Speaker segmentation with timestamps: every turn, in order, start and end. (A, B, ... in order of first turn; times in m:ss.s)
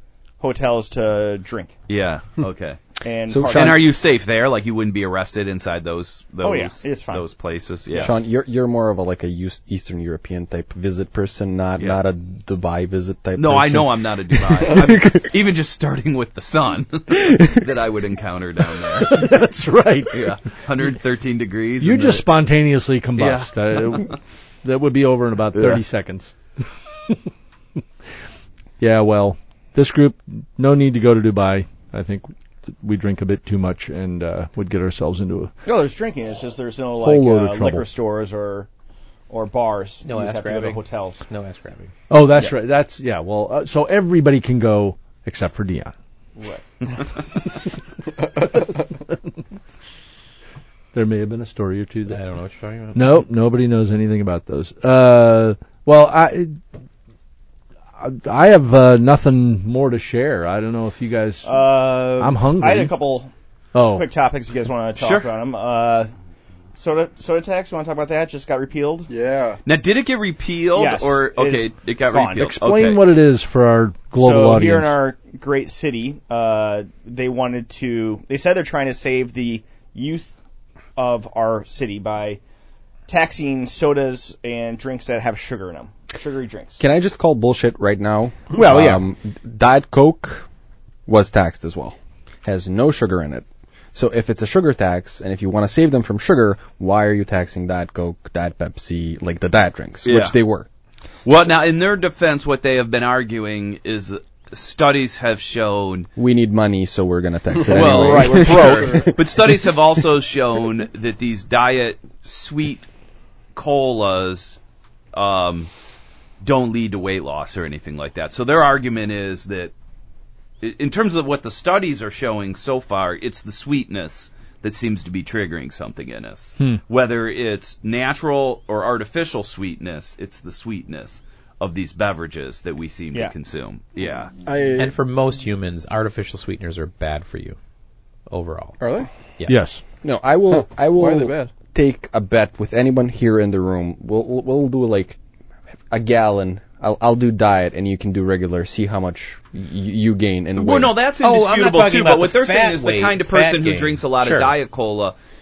0:00.4-0:01.7 A
0:01.9-0:02.8 B
0:03.0-0:03.9 A
0:03.3-0:03.8 C
0:03.5-0:08.1 B
0:06.4-0:07.2 A
0:07.9-0:08.2 A
0:08.0-0:15.3 C
0:13.4-0:19.4 B
0:19.0-0:20.4 D
0:20.1-0:22.2 B
0:21.8-0:26.3 D
0:23.2-0:24.1 B
0:25.5-0:25.8 B
0:28.8-0:35.5 D
0:35.6-0:38.7 A
0:37.0-0:37.9 D
0:39.3-0:41.2 A
0:40.0-0:41.9 E
0:42.1-0:45.9 D
0:46.4-0:46.6 A
0:50.9-0:52.2 D
0:52.1-0:53.0 E
0:52.9-0:56.6 D
0:58.0-1:01.5 D
1:01.4-1:03.3 A
1:02.2-1:02.9 D
1:03.7-1:04.0 D
1:03.9-1:06.1 A
1:05.0-1:05.3 B
1:06.8-1:09.1 A
1:09.1-1:09.6 F
1:09.6-1:13.0 B
1:10.7-1:12.5 A
1:12.5-1:14.9 D
1:14.2-1:20.3 A
1:21.0-1:22.4 A
1:23.1-1:26.8 A
1:26.8-1:30.4 C
1:28.5-1:29.0 A
1:31.0-1:40.7 C
1:40.0-1:40.3 B
1:41.2-1:46.1 B
1:46.2-1:49.8 C
1:47.7-1:52.9 B
1:47.7-1:49.1 A
1:53.6-1:54.6 B
1:55.1-1:55.7 B
1:56.4-1:59.7 B
2:00.6-2:14.3 B
2:14.4-2:15.0 F
2:14.8-2:17.6 E
2:18.3-2:18.8 E
2:18.8-2:19.1 F
2:19.4-2:19.7 E
2:19.5-2:19.8 D
2:20.0-2:25.2 C
2:20.5-2:21.5 F
2:25.9-2:30.9 C
2:30.6-2:35.1 B
2:31.2-2:34.5 E